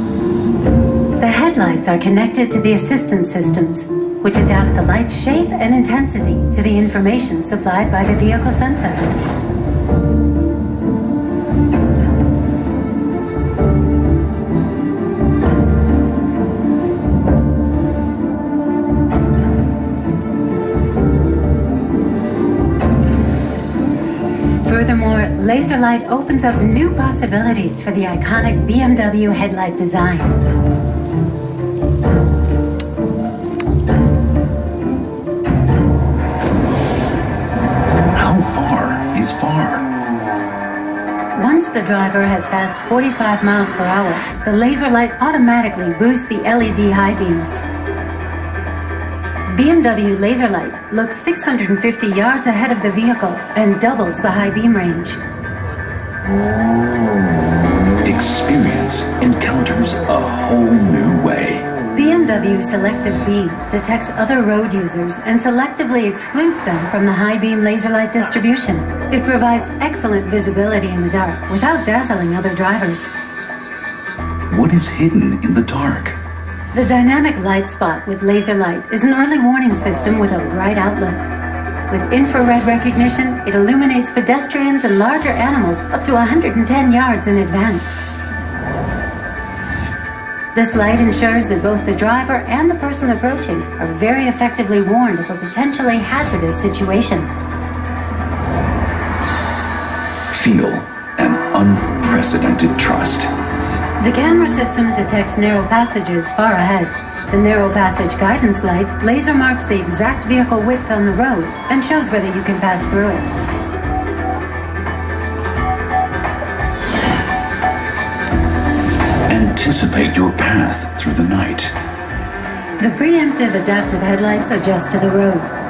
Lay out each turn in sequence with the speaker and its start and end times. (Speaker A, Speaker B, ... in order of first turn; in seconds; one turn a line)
Speaker A: 1.2-9.2
Speaker A: 24.6-30.4
Speaker B: 38.1-39.9
Speaker A: 41.3-47.6
Speaker A: 49.5-55.2
Speaker B: 58.0-61.7
Speaker A: 61.9-73.1
Speaker B: 74.5-76.2
Speaker A: 76.7-81.2
Speaker A: 81.9-88.0
Speaker A: 90.5-97.3
Speaker B: 100.3-103.3
Speaker A: 104.0-113.3
Speaker B: 119.3-121.7
Speaker A: 122.8-125.5